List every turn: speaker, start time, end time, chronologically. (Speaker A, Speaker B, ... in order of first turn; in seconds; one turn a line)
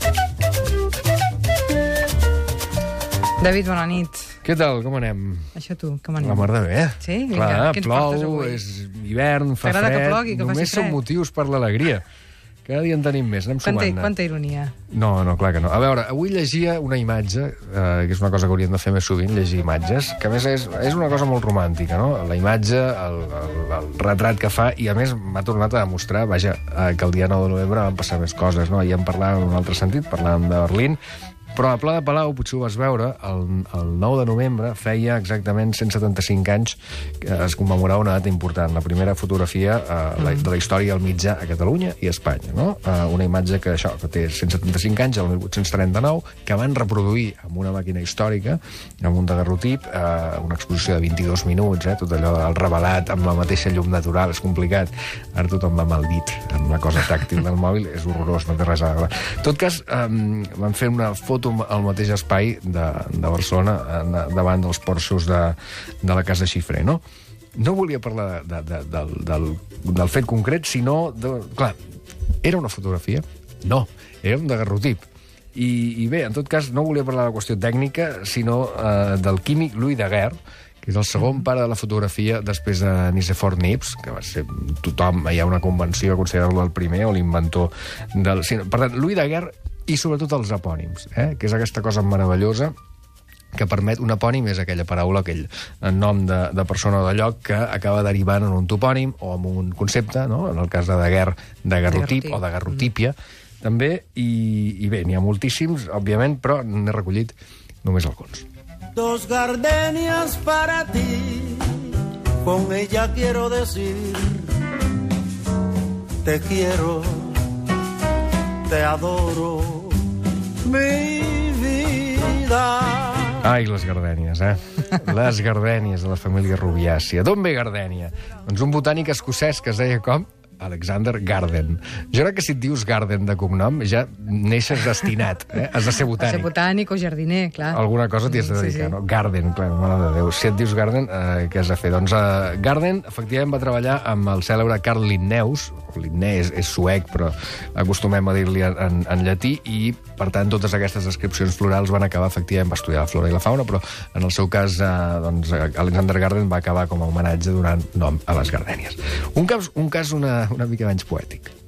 Speaker A: 3.4-4.3
Speaker B: 4.4-5.5
Speaker A: 5.5-8.6
Speaker B: 6.2-12.0
Speaker A: 9.6-11.0
Speaker B: 12.7-14.1
Speaker A: 13.6-14.7
Speaker B: 14.9-31.0
Speaker B: 31.5-67.0
Speaker B: 67.5-71.8
Speaker B: 72.4-92.7
Speaker B: 93.5-108.5
Speaker A: 101.9-102.8
Speaker C: 108.9-114.5
Speaker C: 116.2-117.4
Speaker C: 118.7-120.0
Speaker C: 120.6-123.5
Speaker B: 123.4-136.5
Speaker A: 136.1-138.9
Speaker B: 137.6-161.5